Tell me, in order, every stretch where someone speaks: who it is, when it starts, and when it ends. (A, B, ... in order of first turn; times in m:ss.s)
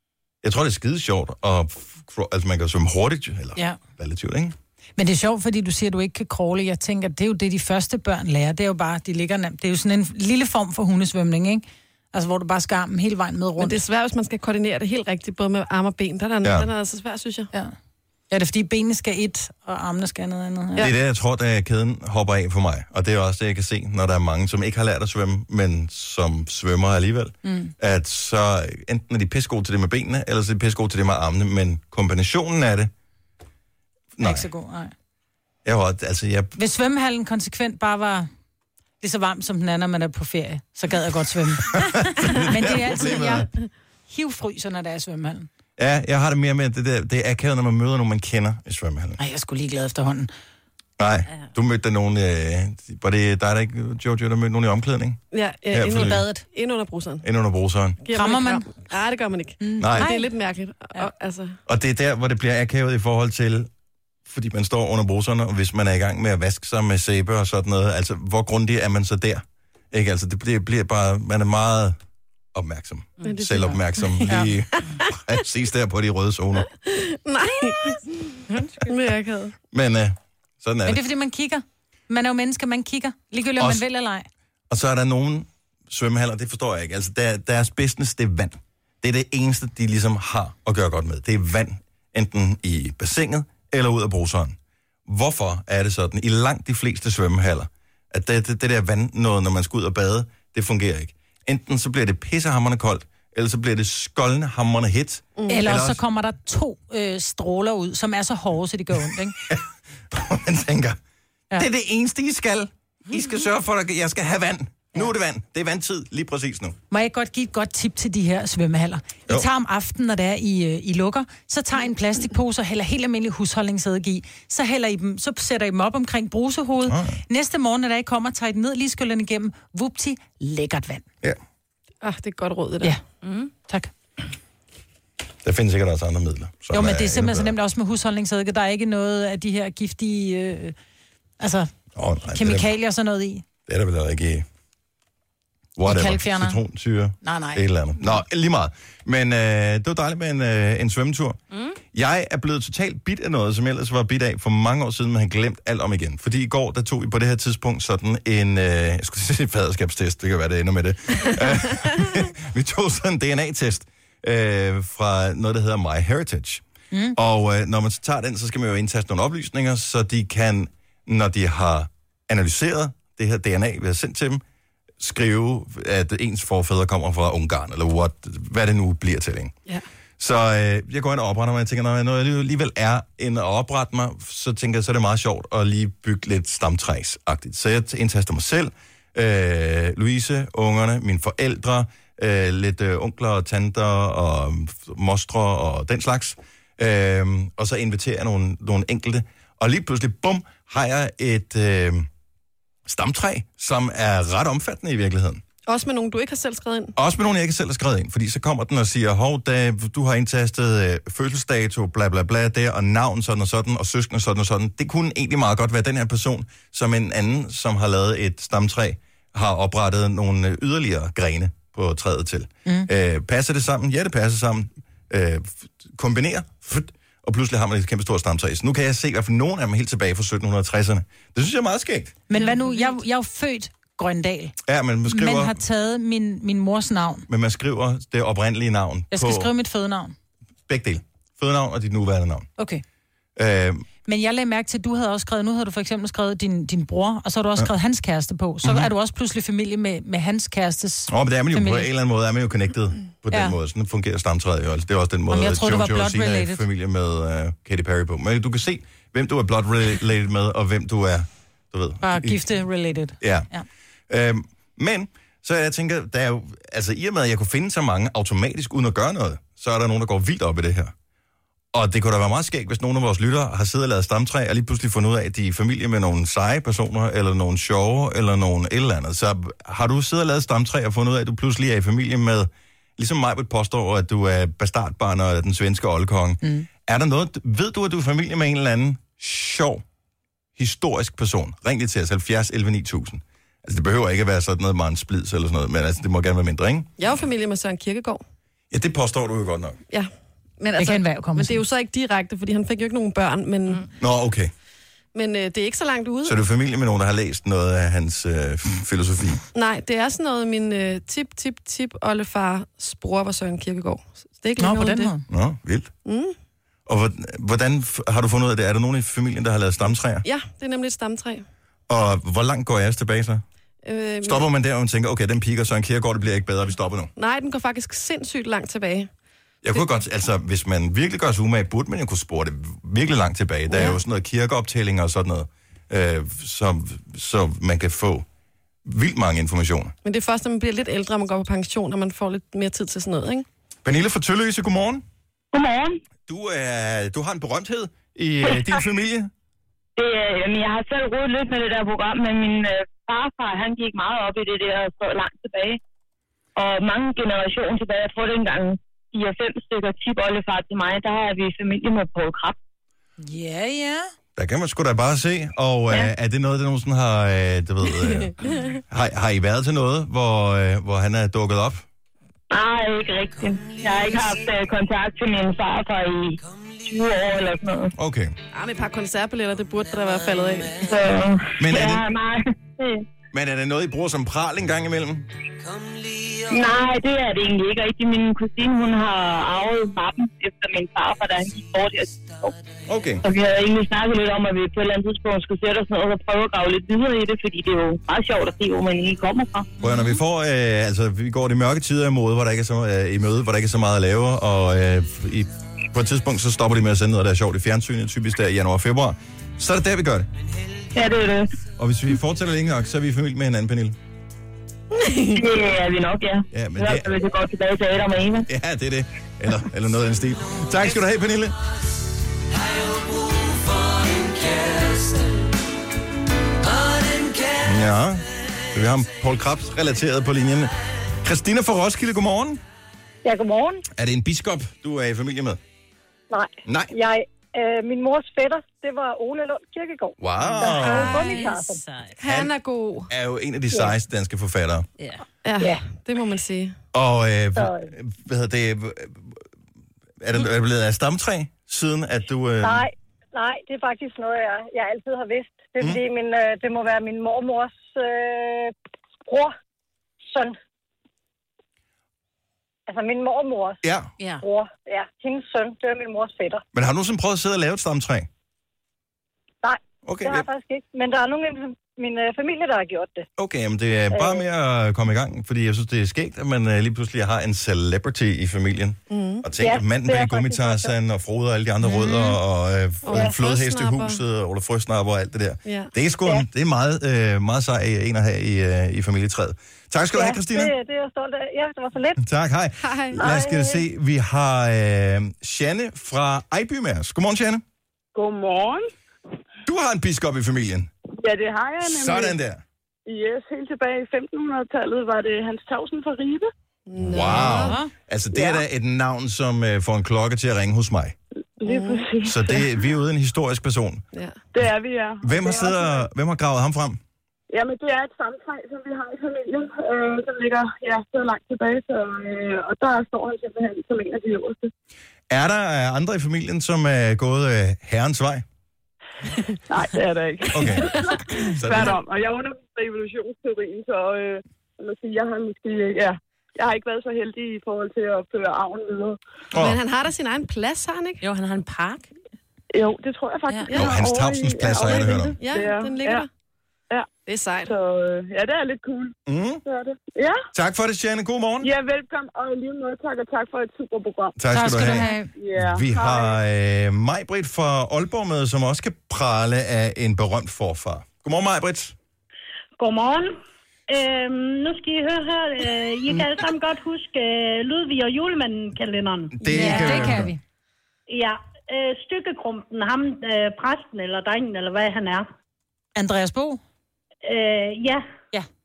0:00.4-0:04.6 A
0:05.0-0:13.8 B
0:13.6-0:17.5 C
0:16.4-0:16.7 A
0:18.3-0:20.9 B
0:20.8-0:32.9 A
0:27.4-0:27.7 B
0:34.2-0:34.5 A
0:34.2-0:34.9 B
0:35.6-0:36.6 A
0:36.6-0:38.3 B
0:39.0-0:43.5 B
0:41.6-0:43.5 A
0:44.1-0:45.5 B
0:45.8-0:49.2 A
0:49.2-0:50.3 B
0:51.0-0:55.2 A
0:55.3-0:57.2 C
0:55.7-0:56.2 A
0:56.0-0:56.4 B
0:57.2-0:58.0 A
0:58.0-1:01.6 C
0:58.1-0:58.7 B
0:59.6-1:00.3 B
0:59.8-1:00.1 A
1:01.7-1:03.7 A
1:04.3-1:12.0 A
1:12.5-1:16.7 A
1:13.2-1:15.1 C
1:14.3-1:14.5 B
1:16.7-1:19.6 C
1:19.7-1:21.0 A
1:20.9-1:24.3 B
1:23.6-1:23.8 A
1:24.7-1:46.0 A
1:45.4-1:45.7 C
1:45.5-1:49.4 B
1:49.4-1:51.0 A
1:51.5-1:56.8 A
1:56.9-2:11.1 B
2:06.9-2:07.2 A
2:12.0-2:13.0 C
2:13.2-2:13.5 D
2:13.6-2:13.9 B
2:15.4-2:17.5 A
2:16.7-2:20.8 B
2:21.4-2:21.7 B
2:22.0-2:22.7 A
2:22.3-2:23.5 B
2:23.7-2:24.4 A
2:25.8-2:31.4 A
2:25.8-2:26.6 B
2:27.2-2:28.2 B
2:31.9-2:46.6 A
2:47.1-2:54.4 A
2:55.0-2:59.5 A
3:00.2-3:22.1 A
3:22.9-3:25.4 A
3:25.7-3:27.0 C
3:27.0-3:52.2 A
3:52.3-3:54.6 B
3:54.6-3:55.6 A
3:55.1-3:57.3 B
3:57.3-3:59.5 A
3:59.1-4:00.2 B
4:00.7-4:02.5 A
4:02.6-4:02.8 B
4:03.4-4:03.8 A
4:04.0-4:11.9 B
4:08.6-4:08.9 A
4:11.1-4:22.4 A
4:15.3-4:16.6 B
4:22.0-4:23.7 B
4:23.2-4:23.5 A
4:24.1-4:30.9 A
4:31.7-4:49.8 A
4:50.6-4:56.9 A
4:57.0-4:58.2 C
4:58.7-4:59.8 A
4:59.9-5:03.9 C
5:00.8-5:01.6 B
5:04.0-5:04.5 A
5:05.1-5:06.4 C
5:06.2-5:09.4 A
5:09.5-5:15.1 C
5:14.6-5:15.2 B
5:15.3-5:15.9 A
5:16.0-5:16.3 C
5:16.9-5:20.2 A
5:20.2-5:21.4 C
5:21.9-5:23.4 A
5:23.8-5:24.5 C
5:24.2-5:27.1 A
5:27.2-5:29.1 C
5:29.6-5:38.3 A
5:33.7-5:34.0 C
5:38.8-5:39.9 A
5:40.0-5:43.5 C
5:43.8-5:45.0 A
5:45.5-5:46.0 E
5:46.3-5:49.3 A
5:50.0-5:55.8 E
5:56.6-6:02.6 E
6:03.2-6:04.1 B
6:04.4-6:11.8 A
6:12.5-6:17.9 E
6:18.0-6:18.4 A
6:18.5-6:20.8 C
6:20.8-6:23.0 E
6:21.6-6:22.1 A
6:23.3-6:25.3 A
6:26.5-6:32.5 E
6:32.9-6:33.2 A
6:33.2-6:39.7 E
6:39.8-6:50.3 A
6:51.0-6:51.5 E
6:51.8-6:54.0 A
6:54.9-6:55.4 C
6:55.4-6:58.5 E
6:56.5-6:57.1 A
6:58.5-7:01.6 A
7:07.6-7:12.6 A
7:13.2-7:13.8 F
7:13.9-7:15.6 A
7:16.3-7:21.8 F
7:16.6-7:16.9 A
7:20.2-7:21.2 A
7:20.4-7:22.2 D
7:20.8-7:21.4 C
7:22.2-7:23.1 C
7:22.2-7:22.5 A
7:23.1-7:24.9 A
7:25.4-7:26.8 C
7:26.9-7:29.4 A
7:27.6-7:27.9 F
7:30.2-7:32.8 A
7:32.6-7:38.7 F
7:39.2-7:39.5 F
7:40.3-7:40.6 F
7:42.9-7:43.8 F
7:43.8-7:44.1 A
7:44.2-7:44.4 D
7:44.4-7:46.6 F
7:46.7-7:48.3 A
7:49.6-7:53.2 F
7:50.0-7:50.5 A
7:53.4-8:10.7 A
7:54.1-7:54.4 F
7:59.1-7:59.5 C
7:59.5-8:00.9 F
8:01.9-8:02.3 B
8:03.0-8:04.2 C
8:03.1-8:03.4 F
8:05.7-8:05.9 C
8:10.1-8:12.2 F
8:12.2-8:17.6 A
8:12.8-8:13.2 C
8:13.2-8:13.8 F
8:18.2-8:18.8 G
8:19.7-8:20.9 A
8:21.2-8:22.4 G
8:21.8-8:22.6 A
8:23.1-8:26.5 G
8:26.9-8:27.8 C
8:27.0-8:31.2 A
8:27.3-8:27.9 B
8:28.3-8:28.6 G
8:31.6-8:32.7 G
8:31.7-8:32.1 C
8:32.2-8:34.0 A
8:34.5-8:36.0 G
8:35.2-8:37.0 A
8:37.5-8:44.7 G
8:45.3-8:48.4 A
8:49.7-8:59.2 G
8:50.5-8:51.0 A
8:51.5-8:52.0 A
8:59.5-8:59.8 A
8:59.6-9:01.2 C
9:01.2-9:02.1 D
9:02.7-9:06.3 G
9:03.5-9:03.7 D
9:03.7-9:05.4 A
9:04.9-9:06.3 C
9:07.2-9:07.7 C
9:07.7-9:10.4 G
9:09.3-9:09.6 A
9:10.5-9:11.7 A
9:11.6-9:14.4 G
9:14.4-9:22.0 A
9:14.5-9:15.3 B
9:15.3-9:16.4 G
9:22.8-9:23.4 H
9:23.9-9:29.9 H
9:29.4-9:30.3 A
9:29.5-9:30.4 B
9:31.1-9:35.3 H
9:36.0-9:36.6 B
9:37.2-9:38.0 H